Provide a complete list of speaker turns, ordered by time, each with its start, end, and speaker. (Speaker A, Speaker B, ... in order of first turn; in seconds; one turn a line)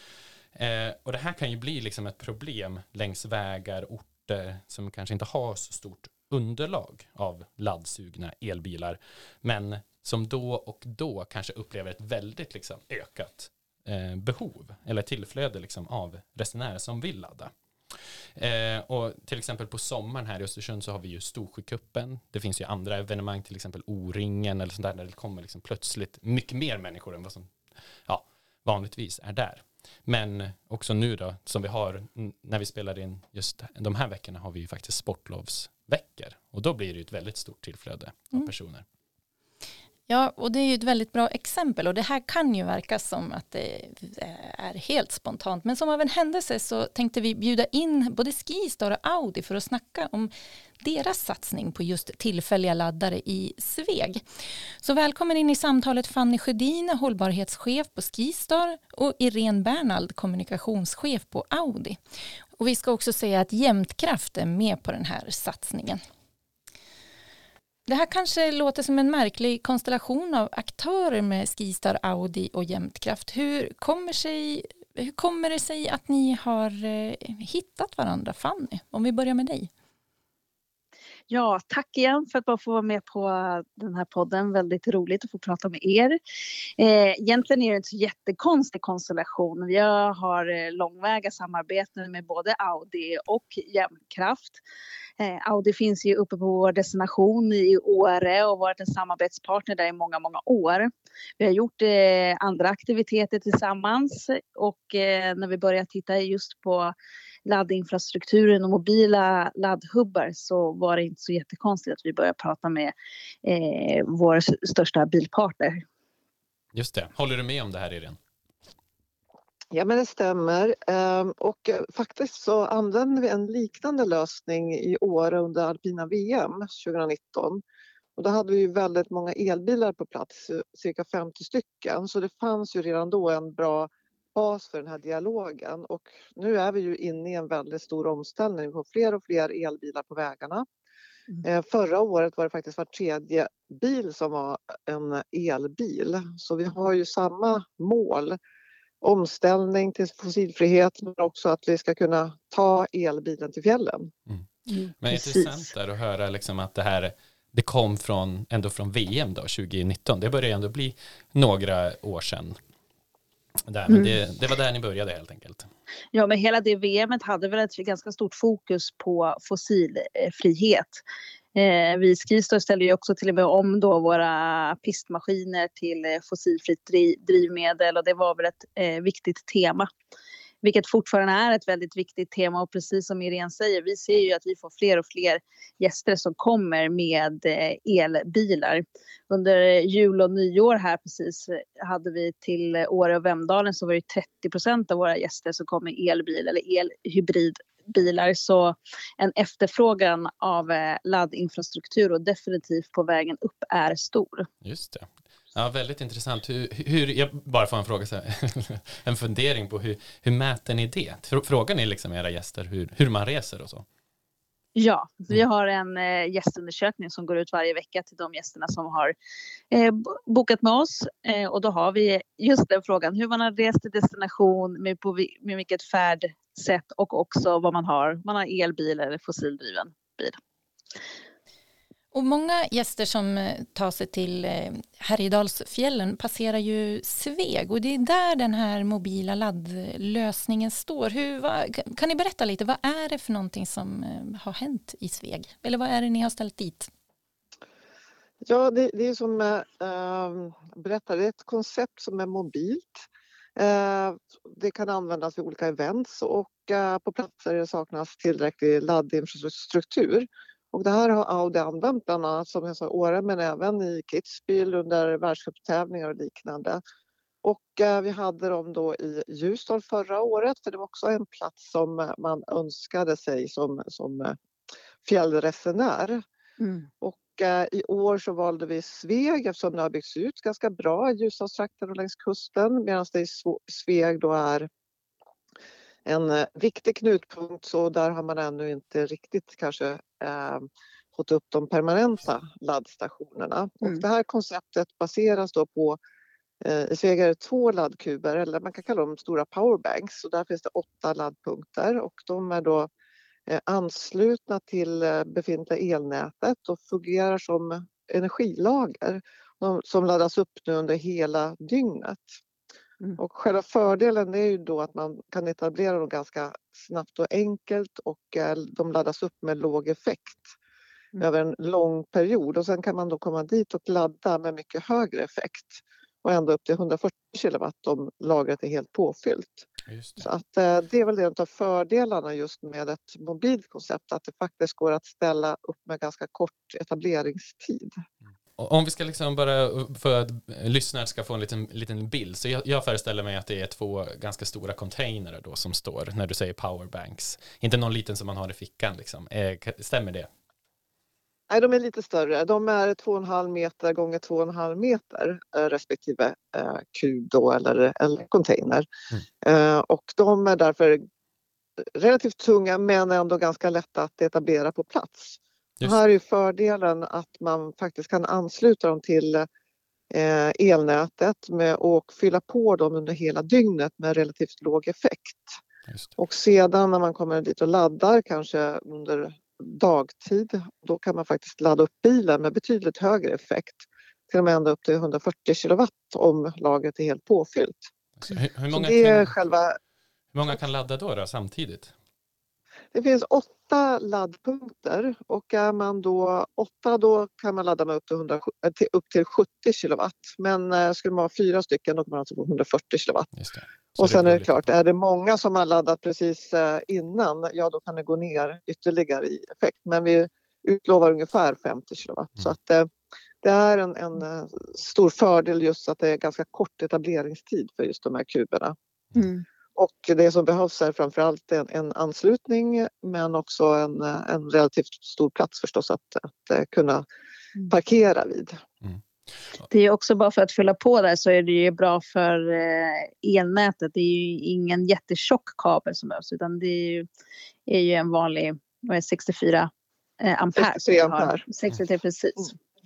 Speaker A: 0.5-27.5
Speaker A: 28.1-38.8
Speaker B: 40.1-54.2
Speaker B: 54.8-62.0
Speaker B: 62.6-66.0
Speaker B: 67.9-79.7
Speaker C: 81.3-86.2
Speaker C: 86.8-94.6
Speaker C: 95.2-106.9
Speaker C: 107.5-112.9
Speaker C: 113.4-115.8
Speaker A: 116.7-118.2
Speaker D: 119.7-127.6
Speaker D: 128.2-140.7
Speaker D: 141.4-148.4
Speaker D: 149.0-154.1
Speaker C: 154.7-155.6
Speaker A: 155.0-162.6
Speaker A: 163.7-165.7
Speaker C: 163.9-164.2
Speaker C: 166.1-171.0
Speaker C: 171.5-179.9
Speaker C: 180.6-204.5
Speaker A: 204.6-213.8
Speaker C: 214.8-219.2
Speaker C: 219.7-230.4
Speaker B: 232.1-246.9
Speaker D: 248.4-253.0
Speaker D: 253.6-266.8
Speaker D: 267.4-274.4
Speaker D: 275.0-276.2
Speaker C: 276.6-276.9
Speaker D: 277.0-284.7
Speaker D: 286.1-296.0
Speaker D: 296.6-302.9
Speaker D: 303.5-312.3
Speaker D: 313.2-320.5
Speaker D: 321.2-329.6
Speaker A: 329.9-330.3
Speaker D: 330.2-338.0
Speaker A: 338.6-350.3
Speaker D: 351.5-358.9
Speaker D: 359.4-361.0
Speaker D: 361.8-369.5
Speaker D: 370.1-375.6
Speaker A: 375.9-376.1
Speaker D: 376.2-387.9
Speaker A: 388.2-389.4
Speaker D: 388.7-389.8
Speaker A: 390.3-391.9
Speaker D: 392.9-403.3
Speaker A: 403.4-404.5
Speaker D: 404.0-412.9
Speaker D: 413.4-418.8
Speaker C: 419.1-419.4
Speaker D: 419.8-427.1
Speaker D: 427.7-428.6
Speaker C: 429.7-437.1
Speaker C: 437.7-442.6
Speaker D: 440.6-441.4